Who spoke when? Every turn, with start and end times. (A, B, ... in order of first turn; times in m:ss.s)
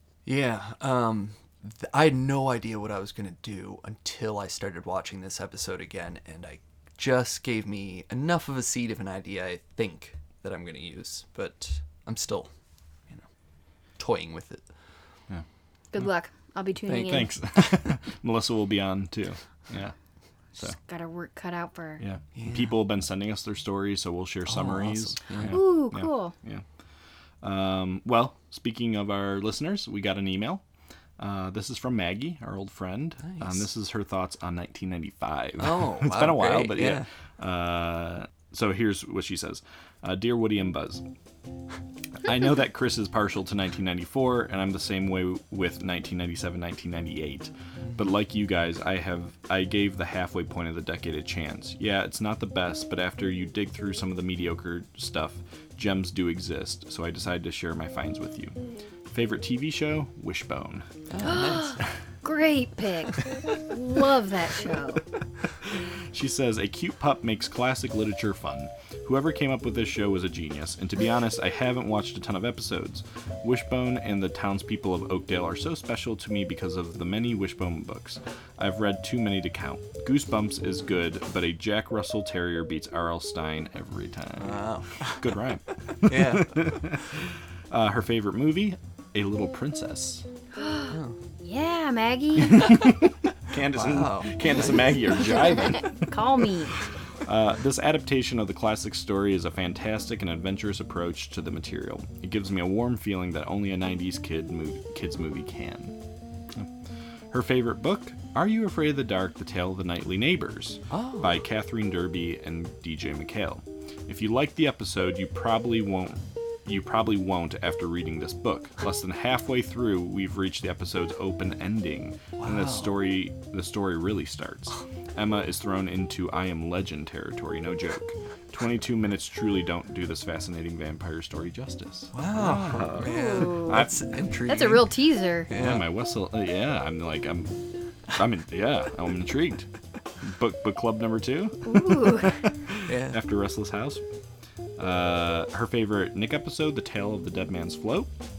0:00.2-0:12.5 A
0:14.0-0:14.7 A
0:15.9-0:17.3 B
0:16.9-0:17.3 A
0:17.0-0:20.0 C
0:20.8-0:22.0 B
0:22.0-0:26.6 C
0:22.4-0:22.8 A
0:24.5-0:25.6 A
0:25.5-0:26.4 B
0:27.4-0:30.6 C
0:31.2-0:41.0 C
0:33.3-0:33.7 A
0:35.6-0:37.1 A
0:42.2-0:58.6 C
0:59.1-1:00.9 C
1:01.1-1:01.8 A
1:01.2-1:05.0 B
1:06.1-1:24.6 C
1:24.4-1:25.2 A
1:25.1-1:30.2 C
1:26.1-1:26.5 A
1:30.6-1:32.7 B
1:30.9-1:31.2 A
1:32.5-1:36.0 C
1:33.7-1:35.1 A
1:35.9-1:36.8 B
1:37.2-1:46.0 C
1:47.3-2:14.0 C
1:50.9-1:51.3 A
2:02.4-2:03.0 A
2:12.1-2:14.9 A
2:13.0-2:13.8 B
2:14.5-2:15.5 B
2:15.5-2:15.8 A
2:15.6-2:17.5 C
2:18.1-2:19.7 C
2:20.2-2:21.8 C
2:21.7-2:22.4 B
2:22.9-2:23.2 A
2:23.1-2:24.0 C
2:24.8-2:28.1 C